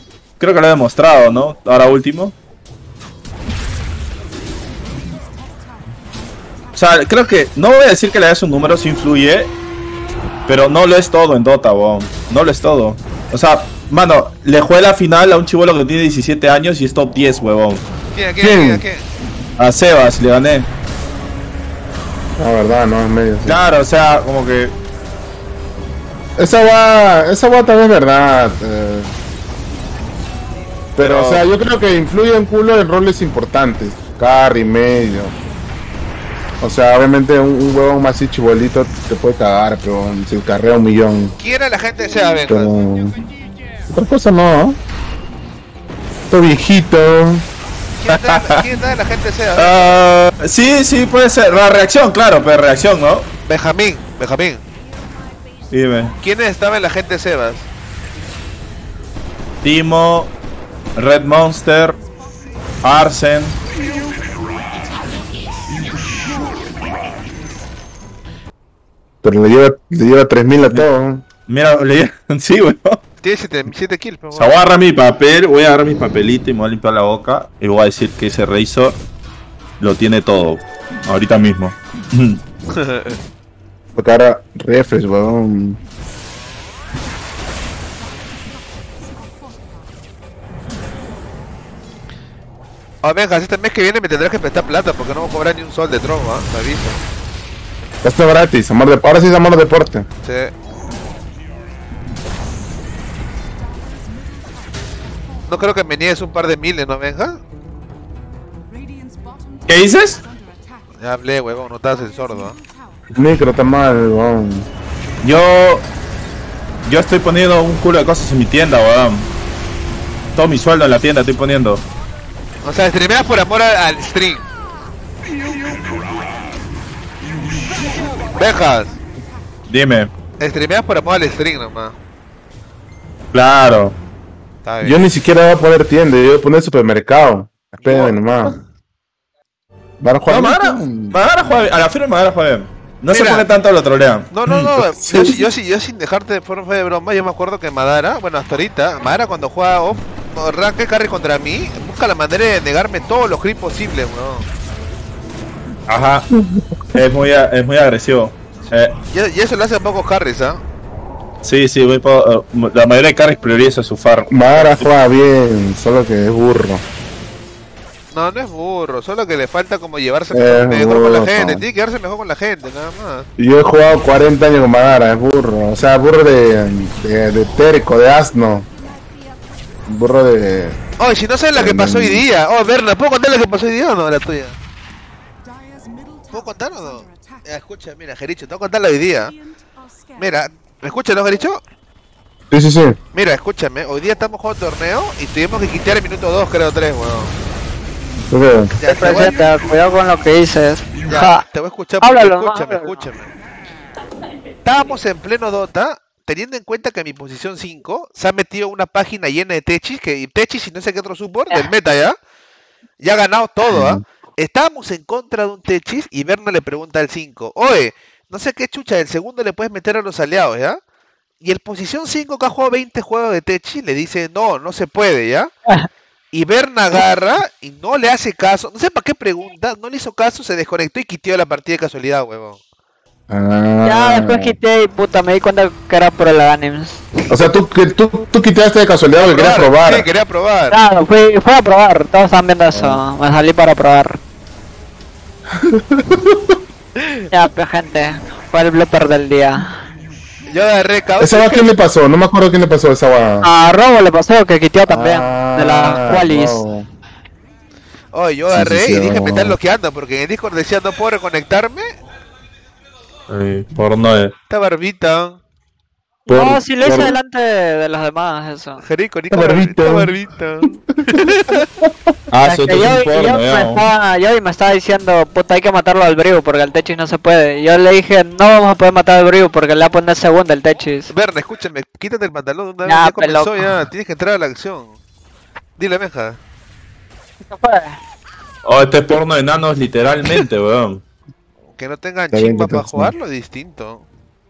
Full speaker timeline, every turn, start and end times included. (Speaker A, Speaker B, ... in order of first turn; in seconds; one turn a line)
Speaker A: 0.4-2.3
Speaker A: 6.7-9.5
Speaker A: 10.4-17.8
Speaker B: 18.1-19.1
Speaker C: 18.4-18.8
Speaker A: 19.6-20.7
Speaker C: 22.4-23.6
Speaker A: 23.4-24.8
Speaker C: 26.4-29.1
Speaker C: 30.9-35.3
Speaker A: 31.0-31.5
Speaker C: 36.6-41.3
Speaker B: 41.4-42.8
Speaker C: 42.5-43.2
Speaker C: 43.9-44.8
Speaker C: 46.3-47.5
Speaker B: 48.0-50.0
Speaker A: 48.1-48.6
Speaker A: 49.5-53.3
Speaker B: 53.5-54.6
Speaker A: 55.7-56.1
Speaker B: 56.2-57.7
Speaker A: 59.6-60.3
Speaker A: 61.0-62.0
Speaker A: 62.8-63.6
Speaker C: 69.2-71.2
Speaker A: 71.5-73.0
Speaker B: 73.2-74.7
Speaker A: 74.3-79.0
Speaker A: 79.8-82.4
Speaker B: 82.7-83.2
Speaker C: 83.9-85.8
Speaker B: 93.0-97.0
Speaker C: 98.0-100.0
Speaker B: 100.2-100.5
Speaker B: 105.5-107.4
Speaker A: 109.7-110.2
Speaker B: 111.0-112.6
Speaker C: 113.1-114.7
Speaker A: 115.2-115.9
Speaker A: 116.8-119.3
Speaker A: 120.3-121.8
Speaker B: 122.6-124.5
Speaker B: 128.2-129.0
Speaker A: 129.7-130.1
Speaker B: 130.4-132.0
Speaker A: 133.3-134.0
Speaker B: 134.6-135.0
Speaker C: 134.8-138.6
Speaker B: 137.8-138.6
Speaker C: 140.0-141.2
Speaker A: 140.2-144.7
Speaker B: 143.1-143.5
Speaker B: 144.3-154.5
Speaker C: 144.8-145.4
Speaker A: 155.9-156.3
Speaker C: 156.3-156.6
Speaker A: 156.9-158.9
Speaker B: 158.6-160.6
Speaker A: 161.4-164.9
Speaker C: 164.3-166.8
Speaker B: 168.1-173.3
Speaker C: 170.3-171.6
Speaker C: 173.4-178.7
Speaker C: 179.9-180.8
Speaker B: 181.0-184.6
Speaker C: 181.5-182.2
Speaker B: 186.3-189.4
Speaker B: 190.1-191.6
Speaker C: 192.5-193.0
Speaker B: 193.1-197.3
Speaker C: 198.3-198.7
Speaker B: 198.8-199.3
Speaker D: 198.8-201.4
Speaker B: 201.0-203.3
Speaker D: 202.0-203.0
Speaker B: 204.6-212.1
Speaker B: 213.0-220.8
Speaker C: 213.7-214.0
Speaker B: 221.4-225.5
Speaker B: 226.3-232.6
Speaker C: 233.3-234.6
Speaker D: 233.8-237.0
Speaker C: 237.3-240.1
Speaker B: 239.1-240.8
Speaker D: 240.7-244.2
Speaker C: 245.6-246.6
Speaker B: 247.0-247.2
Speaker D: 247.3-249.7
Speaker B: 250.5-251.8
Speaker C: 251.2-253.5
Speaker D: 253.4-256.6
Speaker C: 254.9-256.9
Speaker B: 258.1-261.9
Speaker C: 258.5-259.6
Speaker A: 263.3-264.3
Speaker B: 264.5-265.4
Speaker C: 266.3-267.2
Speaker D: 266.3-268.8
Speaker B: 268.8-271.6
Speaker C: 269.3-270.1
Speaker A: 272.3-273.9
Speaker D: 272.4-281.1
Speaker B: 281.1-285.0
Speaker D: 282.8-283.7
Speaker B: 285.8-286.4
Speaker D: 287.5-288.0
Speaker A: 288.6-291.0
Speaker B: 291.7-294.1
Speaker C: 292.3-293.1